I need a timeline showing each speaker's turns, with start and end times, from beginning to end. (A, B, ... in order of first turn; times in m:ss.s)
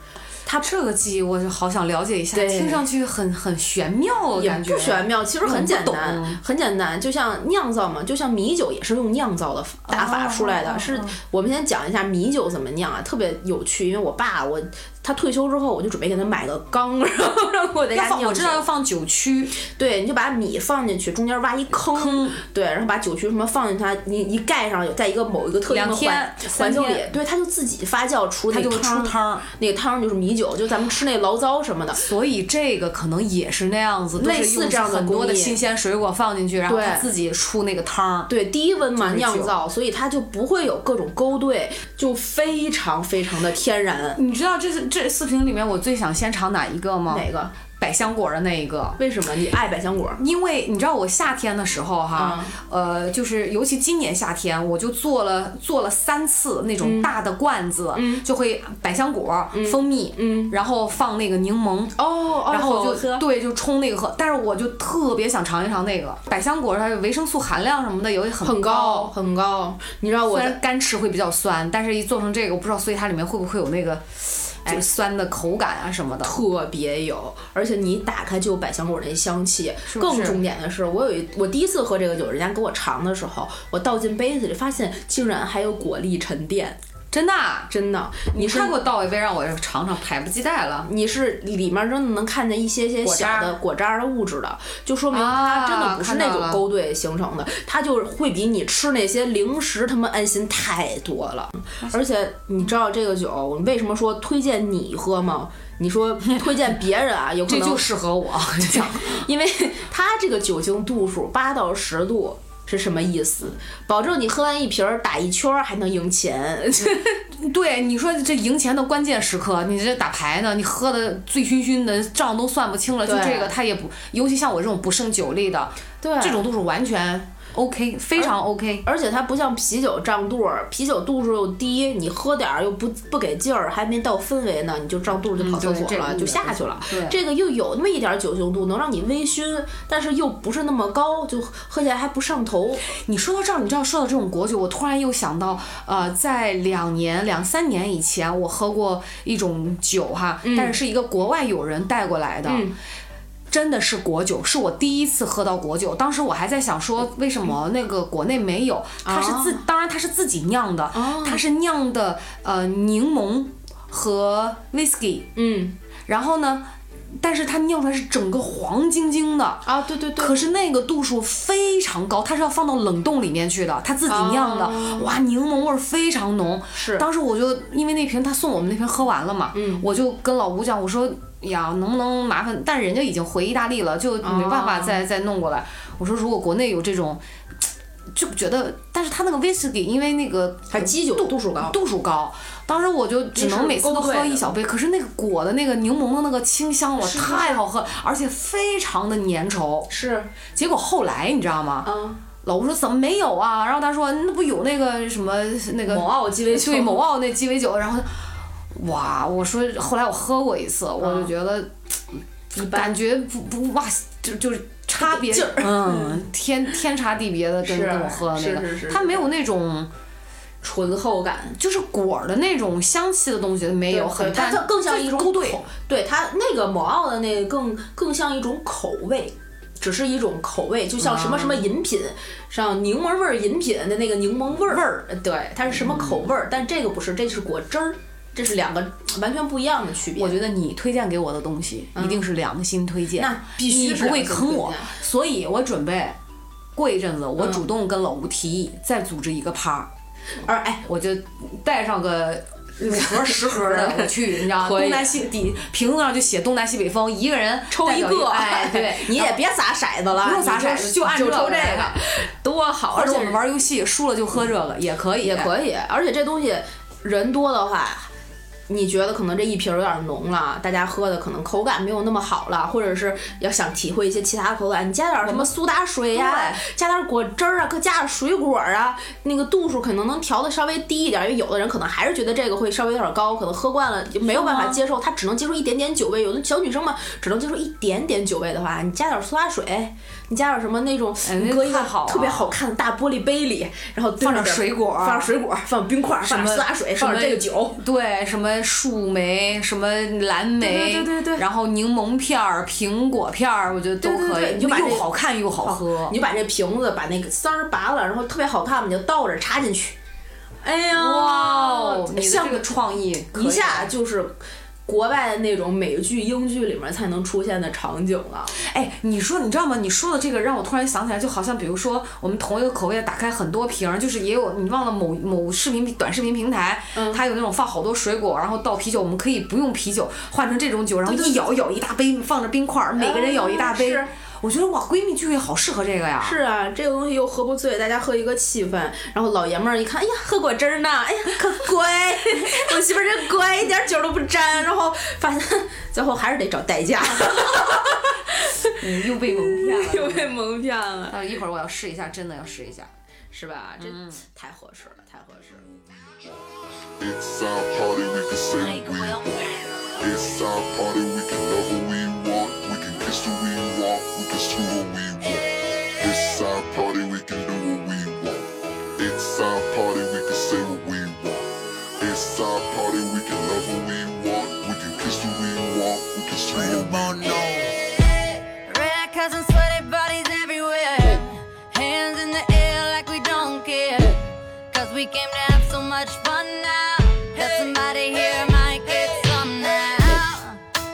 0:00.6-0:06.4 A
0:02.3-0:02.8 B
0:04.4-0:18.7 B
0:09.9-0:11.2 A
0:17.9-0:19.6 A
0:19.6-0:32.0 B
0:21.9-0:22.4 A
0:25.7-0:27.0 A
0:28.5-0:29.5 A
0:32.0-0:38.3 A
0:34.2-0:35.6 B
0:36.7-0:37.1 B
0:38.3-0:44.2 B
0:39.0-0:39.5 A
0:44.2-0:49.0 A
0:47.1-0:47.5 B
0:49.0-0:50.2 B
0:50.2-1:02.0 A
0:52.2-0:52.6 B
0:56.8-0:57.1 B
0:58.0-0:58.2 B
0:59.5-1:00.5 B
1:02.0-1:03.2 B
1:02.5-1:09.1 A
1:08.4-1:10.6 B
1:10.3-1:16.4 A
1:16.2-1:26.8 B
1:19.9-1:20.4 A
1:27.1-1:27.7 A
1:27.7-1:28.8 B
1:28.3-1:30.9 A
1:30.8-1:47.9 B
1:33.0-1:33.6 A
1:35.1-1:36.6 A
1:47.5-1:49.3 A
1:48.6-1:57.2 B
1:57.3-2:08.9 A
2:03.0-2:03.5 B
2:06.0-2:06.4 B
2:08.8-2:22.8 B
2:15.4-2:17.2 A
2:23.0-2:32.7 A
2:30.4-2:30.8 B
2:32.5-2:32.8 B
2:33.5-2:45.3 A
2:39.0-2:39.6 B
2:40.9-2:41.4 B
2:45.4-2:45.8 B
2:46.1-2:49.7 A
2:49.6-2:50.5 B
2:50.2-3:07.2 A
2:54.1-2:55.2 B
2:56.8-2:57.1 B
2:59.5-2:59.9 B
3:04.2-3:05.0 B
3:08.1-3:19.9 A
3:10.7-3:11.8 B
3:13.4-3:14.5 B
3:17.0-3:17.6 B
3:19.9-3:20.3 B
3:20.5-3:21.9 A
3:21.8-3:22.2 B
3:22.4-3:28.1 A
3:25.9-3:27.0 B
3:28.7-3:31.7 A
3:31.0-3:31.3 B
3:32.5-3:39.9 A
3:32.6-3:33.0 B
3:35.0-3:36.2 B
3:37.6-3:39.3 B
3:40.6-3:41.6 B
3:41.6-3:45.6 A
3:43.9-4:00.4 B
3:51.0-3:51.7 A
3:54.7-3:55.0 A
3:55.7-3:56.3 A
4:00.2-4:06.2 A
4:02.0-4:02.3 B
4:03.2-4:04.9 B
4:06.8-4:09.9 A
4:07.4-4:07.7 B
4:10.4-4:10.8 B
4:10.9-4:19.4 A
4:12.8-4:15.2 B
4:17.7-4:23.4 B
4:20.2-4:22.0 A
4:22.9-4:25.5 A
4:25.2-4:28.1 B
4:28.7-4:57.8 B
4:35.2-4:35.5 A
4:36.1-4:36.6 A
4:44.2-4:44.8 A
4:51.2-4:52.5 A
4:54.2-4:55.3 A
4:56.2-5:06.2 A
5:00.6-5:01.4 B
5:04.0-5:05.1 B
5:05.6-5:10.0 B
5:10.6-5:12.8 B
5:10.9-5:13.9 A
5:13.3-5:18.5 B
5:18.6-5:36.4 A
5:26.9-5:27.2 B
5:31.1-5:31.4 B
5:33.0-5:34.1 B
5:36.2-5:51.2 B
5:48.8-5:50.3 A
5:51.1-5:52.9 A
5:53.3-5:55.7 B
5:53.8-5:54.2 A
5:57.0-6:17.7 C
6:18.5-6:30.6 D